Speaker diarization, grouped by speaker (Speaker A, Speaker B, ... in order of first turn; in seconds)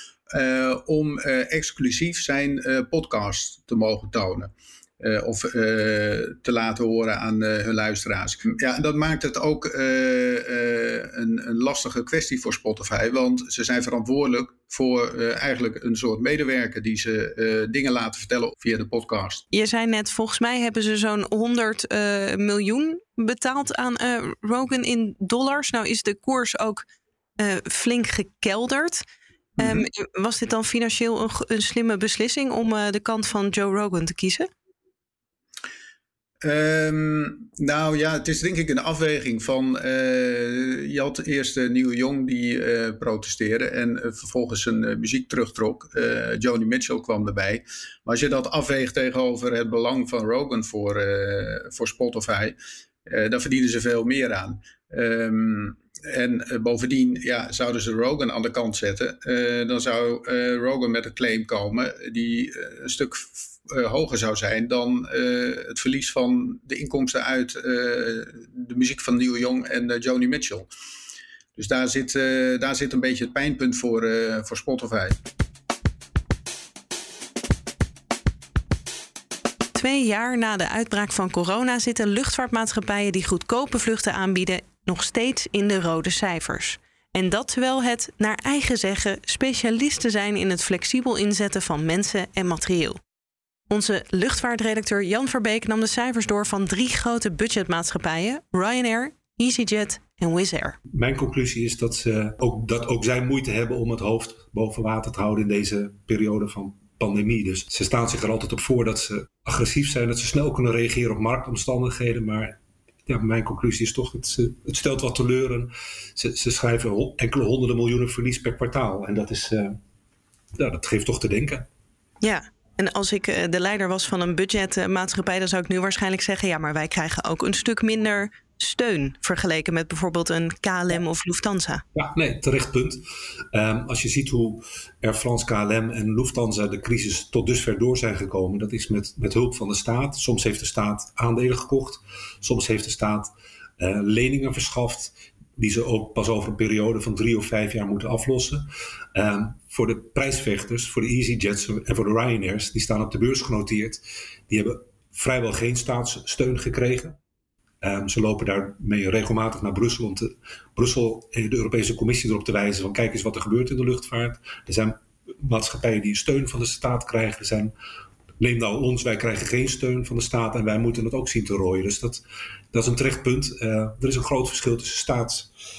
Speaker A: 0.3-19.4, 36.4-52.6, 53.1-70.7, 71.6-75.2
Speaker B: 19.5-26.9, 27.4-29.0, 29.6-34.5, 79.8-93.0, 93.7-100.8, 122.2-131.8
Speaker C: 100.9-119.8, 120.6-121.7, 131.9-157.2, 157.8-167.7, 168.4-175.5